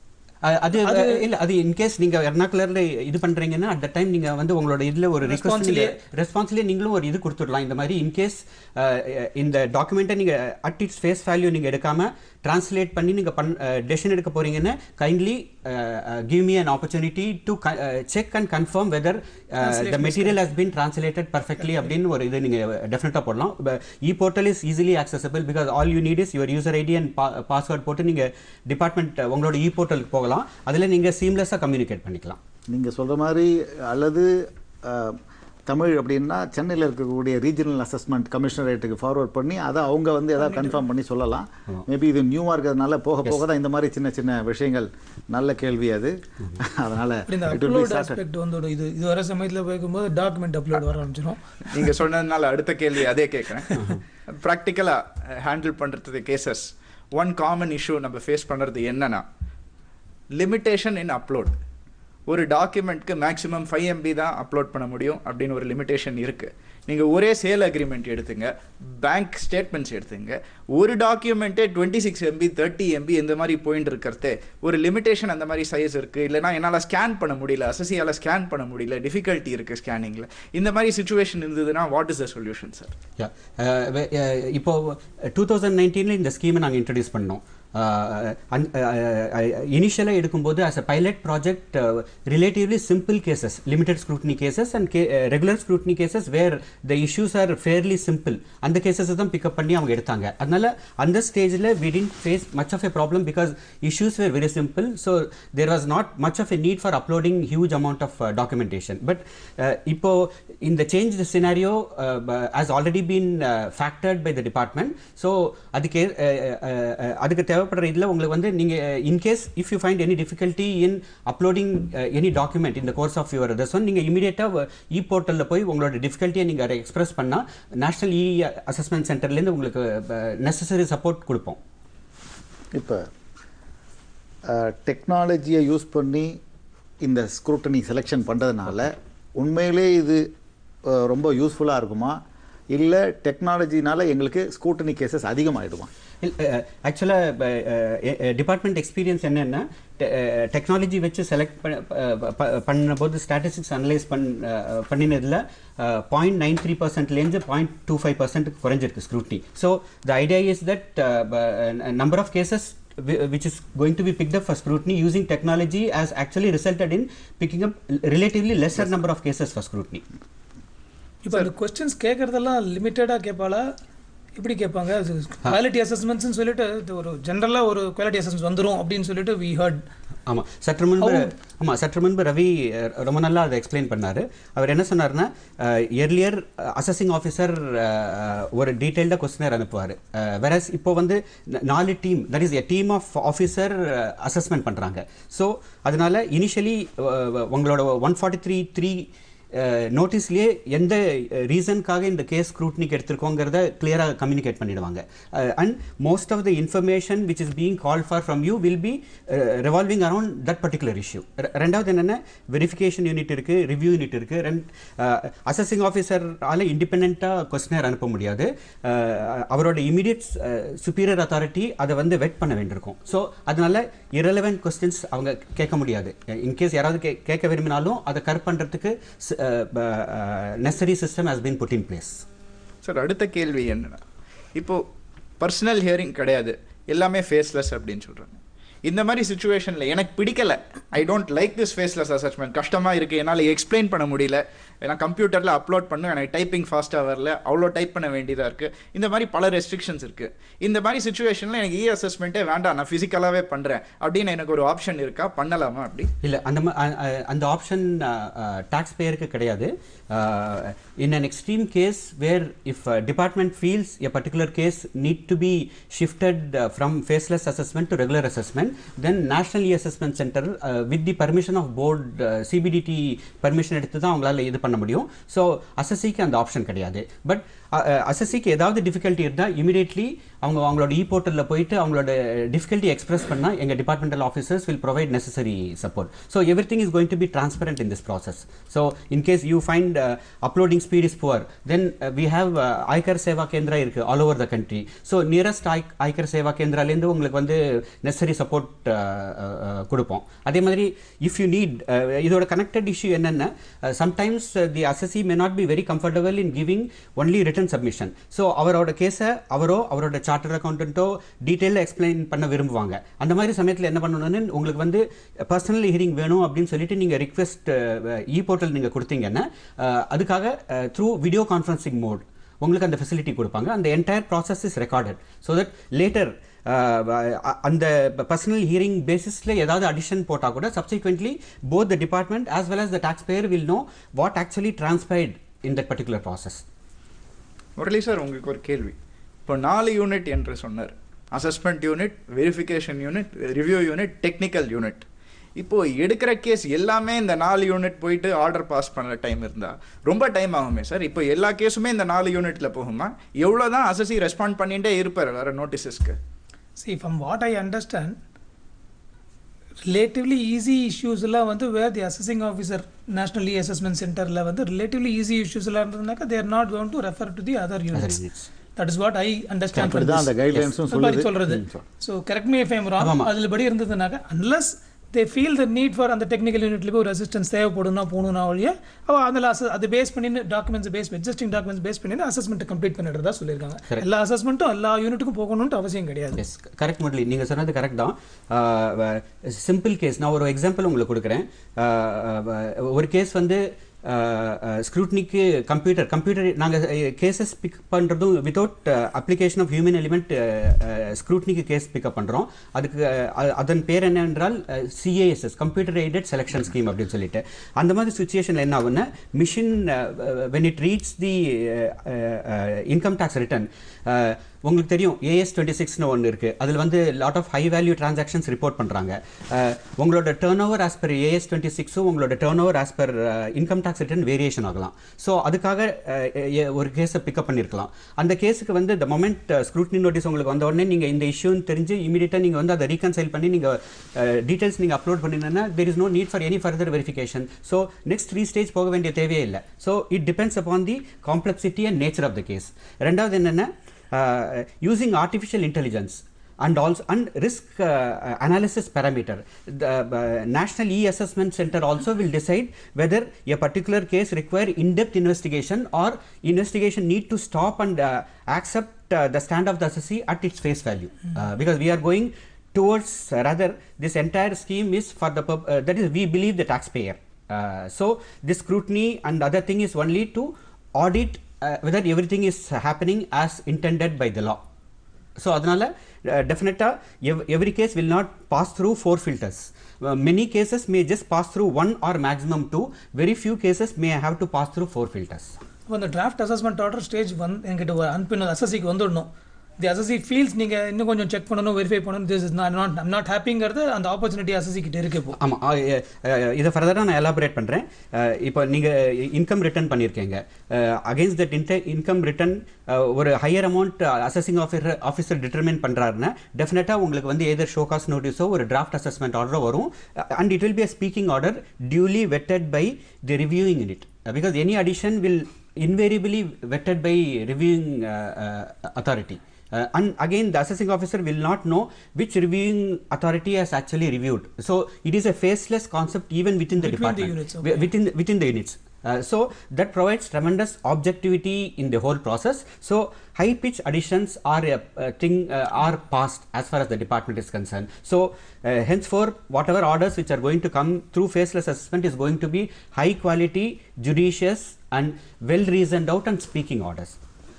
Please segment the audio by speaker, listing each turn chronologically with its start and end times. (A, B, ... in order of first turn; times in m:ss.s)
0:00.4-0:32.4 A
0:00.8-0:01.2 B
0:05.2-0:06.0 B
0:19.6-0:20.4 B
0:32.7-0:48.2 C
0:40.4-0:40.8 B
0:47.3-0:51.9 B
0:51.7-0:59.2 D
1:00.3-1:01.6 D
1:02.3-1:22.9 D
1:23.2-2:11.6 A
2:12.7-2:13.1 C
2:14.4-2:16.4 C
2:17.0-2:20.3 C
2:20.8-2:22.2 C
2:22.7-2:25.9 C
2:26.2-2:50.0 A
2:51.2-2:53.6 B
2:54.4-2:59.8 B
3:00.3-3:52.2 A
3:01.0-3:01.3 B
3:52.8-3:54.0 D
3:54.5-3:54.8 D
3:55.4-4:16.1 D
4:16.2-5:36.6 A
5:37.8-5:39.0 D
5:39.5-5:45.0 D
5:45.6-5:56.2 D
5:56.8-5:58.2 B
5:59.9-6:08.2 B
6:07.9-6:08.5 A
6:08.8-6:10.3 B
6:09.8-6:11.8 C
6:10.9-6:26.4 B
6:13.0-6:13.3 A
6:26.4-7:54.6 A
7:55.4-8:05.5 A
8:05.9-8:09.3 B
8:09.8-8:15.4 B
8:15.4-9:07.2 A
8:46.8-8:47.7 B